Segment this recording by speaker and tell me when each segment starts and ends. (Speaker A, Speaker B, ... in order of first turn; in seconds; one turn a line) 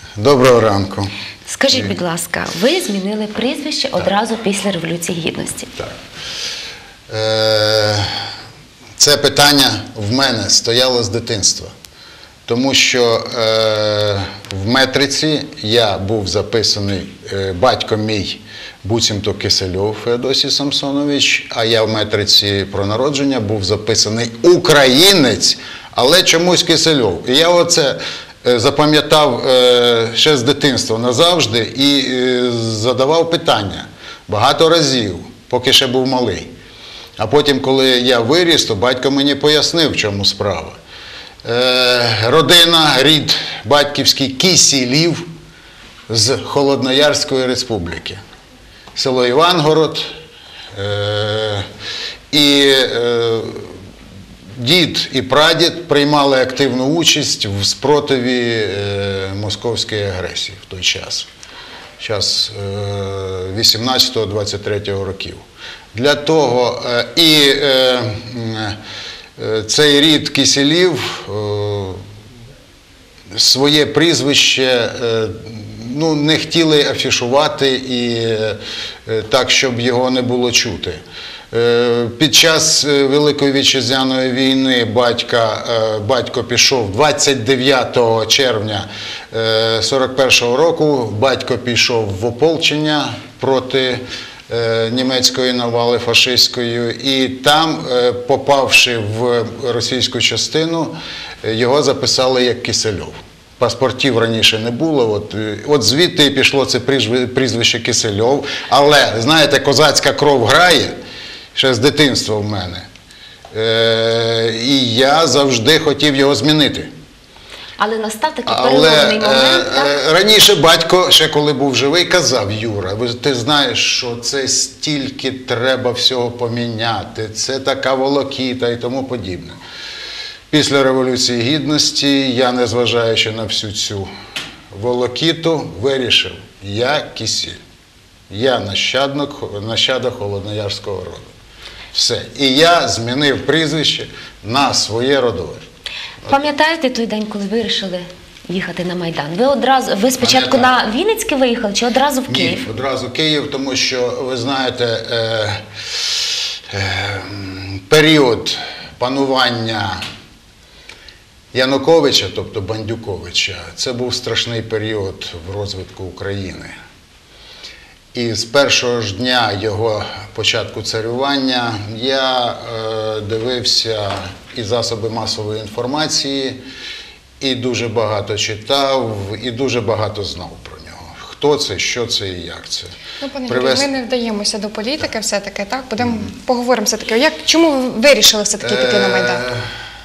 Speaker A: 0.2-1.1
Speaker B: 1.4-5.7
Speaker A: 7.1-8.1
Speaker A: 9.0-11.7
Speaker A: 12.4-36.5
Speaker A: 37.2-40.8
Speaker A: 41.4-45.2
Speaker A: 46.1-48.2
Speaker A: 48.9-50.0
Speaker A: 50.7-51.6
Speaker A: 52.3-53.7
Speaker A: 54.6-61.3
Speaker A: 62.0-65.4
Speaker A: 65.9-68.8
Speaker A: 69.4-72.0
Speaker A: 73.3-111.0
Speaker A: 111.5-112.8
Speaker A: 113.5-116.9
Speaker B: 117.8-119.9
Speaker A: 118.5-129.6
Speaker A: 130.5-134.1
Speaker A: 134.7-137.6
Speaker A: 138.3-141.3
Speaker A: 141.9-145.7
Speaker B: 146.2-152.7
Speaker A: 150.2-150.7
Speaker A: 152.3-155.6
Speaker A: 156.7-160.0
Speaker A: 161.5-166.7
Speaker A: 168.1-176.6
Speaker A: 177.4-182.9
Speaker C: 183.2-189.4
Speaker A: 183.5-183.9
Speaker A: 188.6-189.7